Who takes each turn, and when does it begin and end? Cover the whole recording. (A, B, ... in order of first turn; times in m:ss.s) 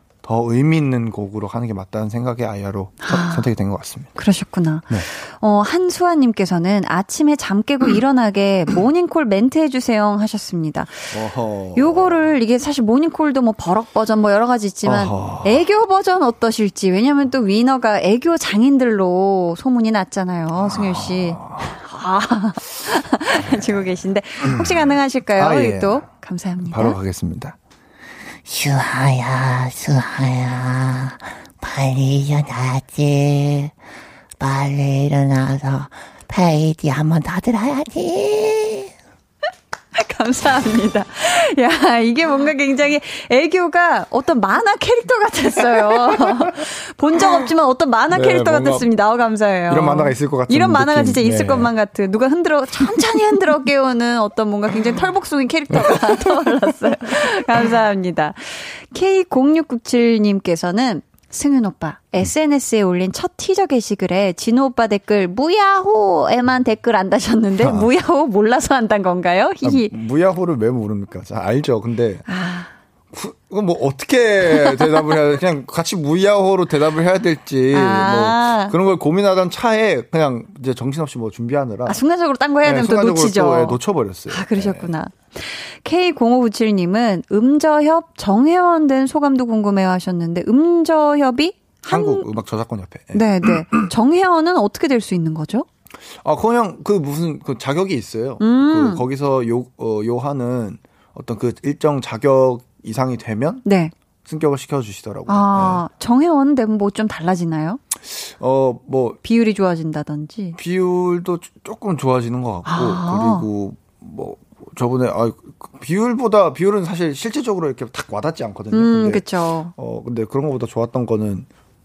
0:00.2-0:04.1 A
0:03.0-0:03.5 B
0:04.2-0:11.2 B
0:11.1-0:12.3 A
0:11.8-0:27.0 B
0:14.8-0:15.6 A
0:20.6-0:21.8 A
0:24.4-0:26.0 A
0:26.6-0:27.6 A
0:28.5-0:33.8 C
0:34.4-0:38.9 C
0:40.0-1:09.9 B
0:45.8-0:46.5 A
0:48.1-0:48.9 A
0:49.7-0:51.7 A
0:55.7-0:56.6 A
1:07.6-1:07.9 A
1:09.6-1:12.3 A
1:12.3-1:12.7 B
1:13.1-1:22.0 A
1:17.7-1:18.7 B
1:21.9-1:23.8 B
1:22.6-1:24.9 A
1:24.3-1:32.3 B
1:31.9-1:33.8 A
1:33.1-1:35.7 B
1:36.2-1:43.6 A
1:38.4-1:39.0 B
1:43.6-1:43.9 B
1:44.2-1:45.8 A
1:45.3-1:47.8 B
1:48.1-1:49.2 A
1:49.2-1:50.6 B
1:50.6-1:59.2 A
1:52.7-1:53.5 B
1:58.7-1:59.7 B
1:59.8-2:01.5 A